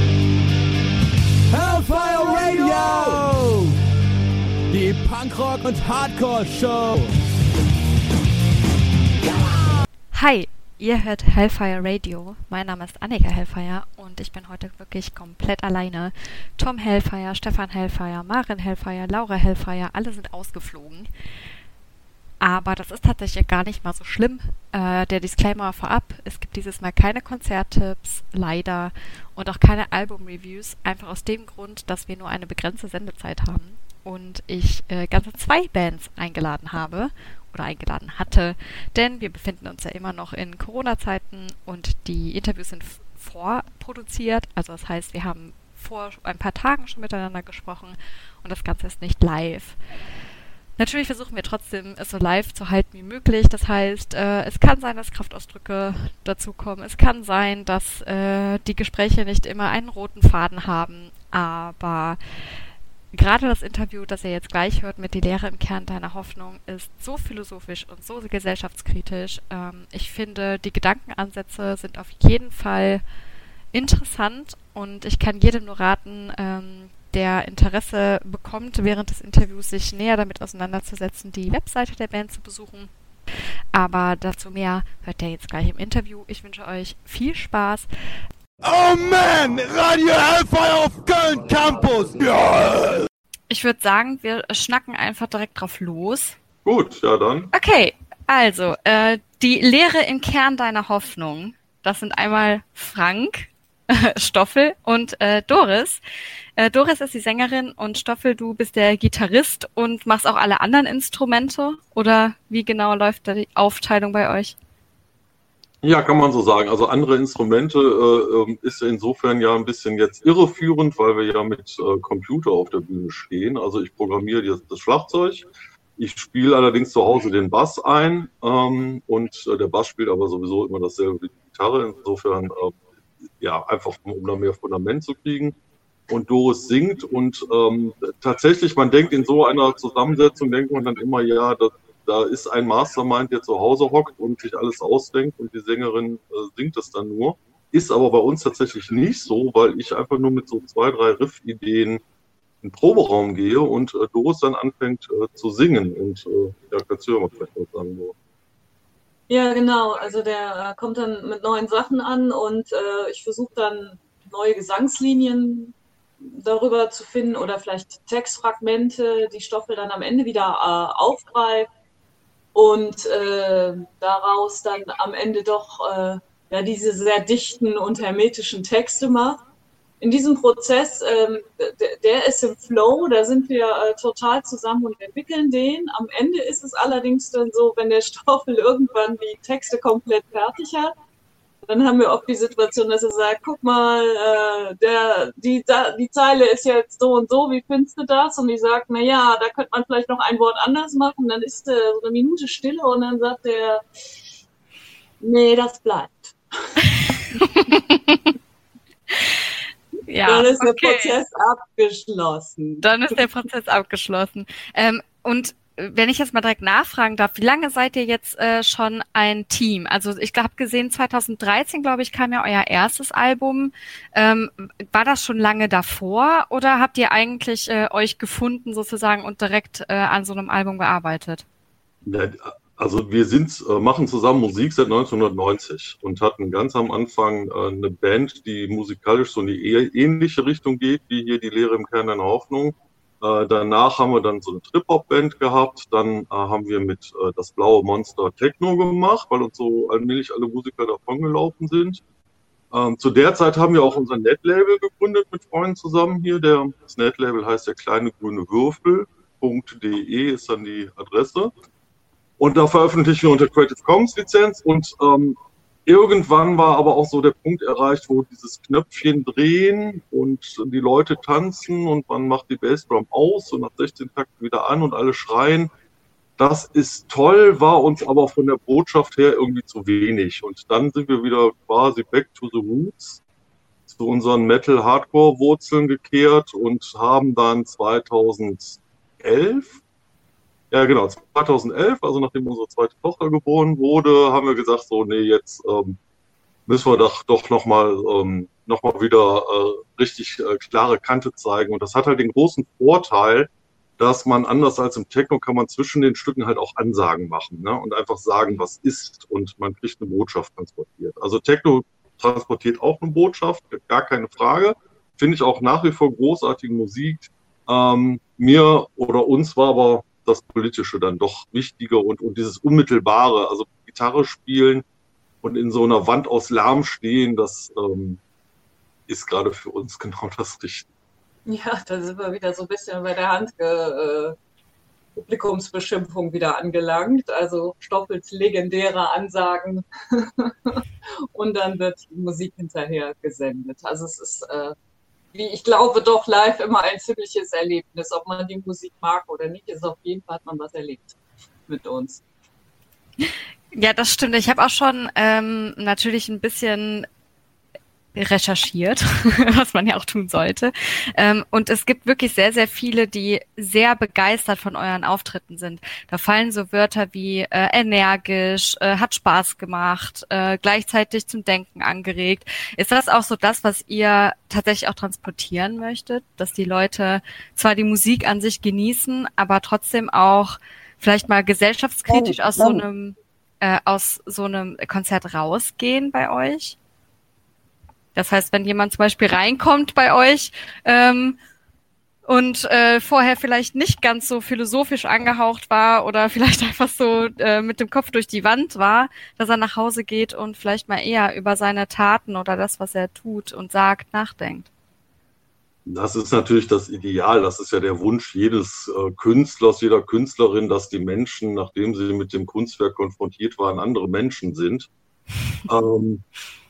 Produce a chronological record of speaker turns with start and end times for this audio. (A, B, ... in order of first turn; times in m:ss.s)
0:01.5-0:03.6 A
0:04.7-0:07.1 A
0:10.1-0:21.1 B
0:22.4-0:49.8 B
0:50.8-1:02.2 B
1:03.1-1:13.0 B
1:13.7-1:22.9 B
1:23.7-1:27.9 B
1:28.6-1:32.9 A
1:33.5-1:36.4 B
1:36.6-1:37.5 C
1:37.5-1:46.0 B
1:46.6-1:54.6 B
1:55.8-2:12.8 C
2:13.4-2:15.5 C
2:16.1-2:32.0 C
2:32.6-2:38.1 C
2:39.3-2:51.7 D
2:52.5-2:59.4 D
3:00.0-3:10.9 D
3:11.7-3:23.8 D
3:25.2-3:26.8 D
3:27.4-3:28.2 B
3:30.1-3:31.1 B
3:30.2-3:33.2 D
3:32.8-3:51.4 B
3:52.0-4:12.0 C
4:12.7-4:21.5 C
4:22.4-4:35.7 C
4:36.4-4:43.2 C
4:43.9-4:49.8 C
4:50.7-4:56.0 C
4:56.7-5:24.8 C
5:25.4-5:28.2 C
5:29.1-5:30.9 C
5:31.4-5:34.4 D
5:35.2-5:44.7 D
5:45.3-5:51.2 D
5:51.7-5:52.2 D
5:53.2-5:57.1 B
5:58.1-6:26.8 B
6:28.1-6:31.4 B
6:32.2-6:44.7 B
6:45.8-6:54.9 C
6:55.7-6:56.2 C